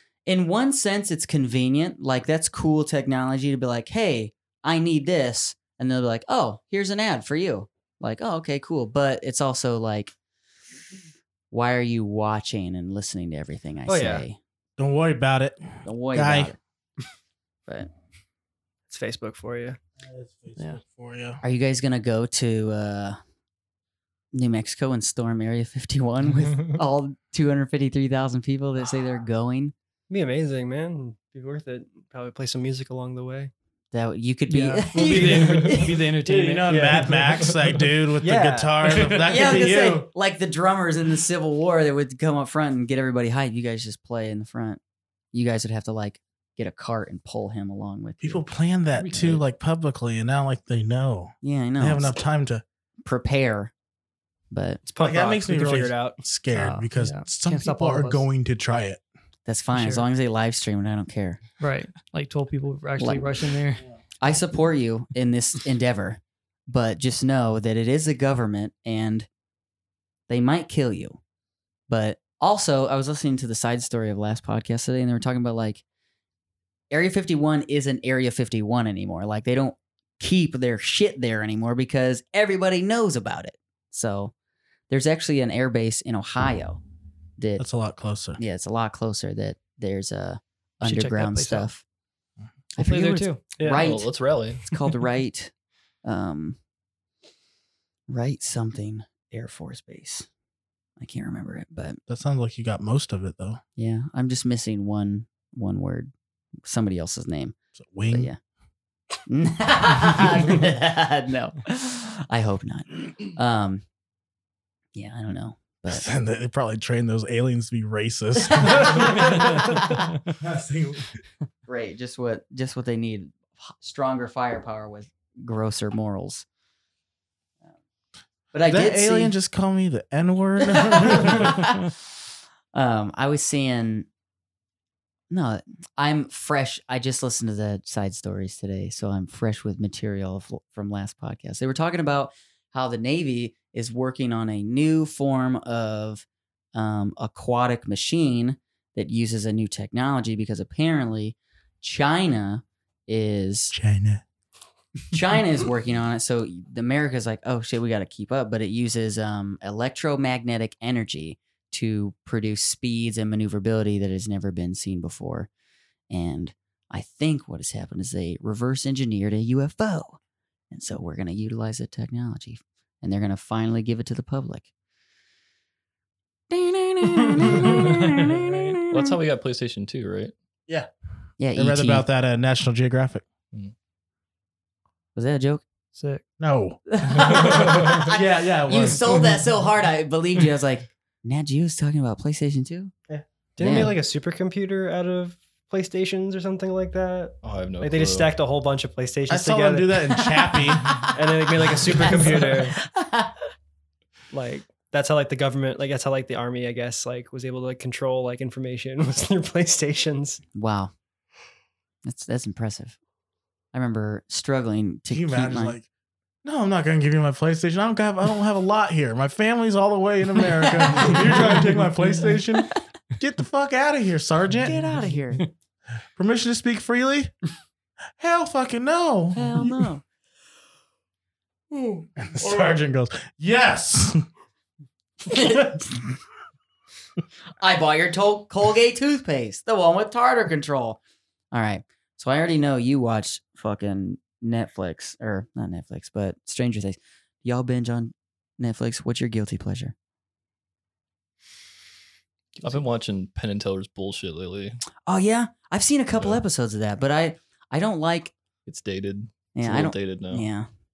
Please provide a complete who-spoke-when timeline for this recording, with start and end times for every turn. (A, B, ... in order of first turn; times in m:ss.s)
0:00.3-0:10.1 A
0:11.5-0:14.4 A
0:13.9-0:14.2 B
0:14.8-0:16.6 C
0:15.8-0:16.6 A
0:18.9-0:19.8 B
0:20.0-0:21.4 C
0:21.4-0:23.2 A
0:24.3-0:29.7 A
0:30.1-0:33.5 B
0:33.9-0:36.0 A
0:34.5-0:35.4 B
0:34.5-0:37.2 D
0:36.2-0:40.1 C
0:36.7-0:37.2 B
0:38.2-0:39.3 B
0:39.2-0:44.8 A
0:45.3-0:48.4 A
0:48.2-0:52.6 C
0:49.1-0:49.4 E
0:51.4-0:52.2 A
0:53.0-0:53.7 A
0:54.5-0:54.8 A
0:54.9-0:56.2 B
0:55.0-0:59.0 C
0:56.5-0:58.3 D
0:59.5-1:01.4 A
0:59.7-1:00.0 D
1:01.6-1:03.8 D
1:03.0-1:03.3 A
1:04.2-1:09.3 A
1:10.3-1:11.2 A
1:11.9-1:15.8 A
1:16.9-1:24.3 A
1:24.9-1:26.8 A
1:27.4-1:27.6 A
1:27.6-1:28.4 C
1:28.4-1:31.8 A
1:30.8-1:31.7 D
1:32.8-1:35.5 A
1:32.8-1:33.4 D
1:33.6-1:33.8 B
1:33.8-1:34.8 E
1:36.0-1:36.6 A
1:38.1-1:40.3 A
1:41.0-1:42.0 A
1:42.1-1:43.6 C
1:43.8-1:46.1 A
1:46.6-1:47.6 A
1:47.8-1:48.3 C
1:48.1-1:48.4 A
1:49.3-1:53.8 A
1:55.0-1:56.0 A
1:55.9-1:59.8 C
2:00.3-2:01.2 C
2:01.7-2:06.5 A
2:08.5-2:09.3 A
2:08.7-2:11.6 C
2:10.7-2:12.0 A
2:12.7-2:14.1 A
2:15.3-2:33.8 A
2:33.7-2:34.2 C
2:35.1-2:45.5 A
2:46.1-2:50.2 A
2:50.7-2:54.7 A
2:56.5-2:59.1 A
2:57.4-2:57.9 E
2:57.6-2:58.8 D
2:58.9-3:00.3 E
3:01.4-3:02.1 A
3:01.5-3:03.2 C
3:05.2-3:05.6 A
3:05.9-3:06.2 D
3:06.4-3:06.8 C
3:06.9-3:12.9 A
3:07.1-3:08.1 E
3:08.1-3:08.6 B
3:08.3-3:09.3 C
3:13.6-3:20.2 B
3:13.6-3:14.0 A
3:17.4-3:18.3 E
3:19.3-3:21.0 C
3:20.2-3:21.1 A
3:21.1-3:22.8 B
3:21.7-3:23.4 A
3:24.3-3:30.4 B
3:30.6-3:30.9 A
3:32.0-3:33.0 A
3:33.7-3:35.8 A
3:35.1-3:35.9 C
3:36.4-3:45.0 C
3:40.6-3:41.7 A
3:44.6-3:45.4 A
3:46.2-3:47.4 C
3:48.2-3:49.9 C
3:49.3-3:50.0 A
3:52.2-3:54.2 C
3:55.3-3:56.1 A
3:57.6-4:01.0 A
4:01.5-4:10.0 A
4:12.6-4:14.8 E
4:15.1-4:18.3 A
4:16.1-4:16.4 E
4:18.6-4:20.5 E
4:19.6-4:20.7 A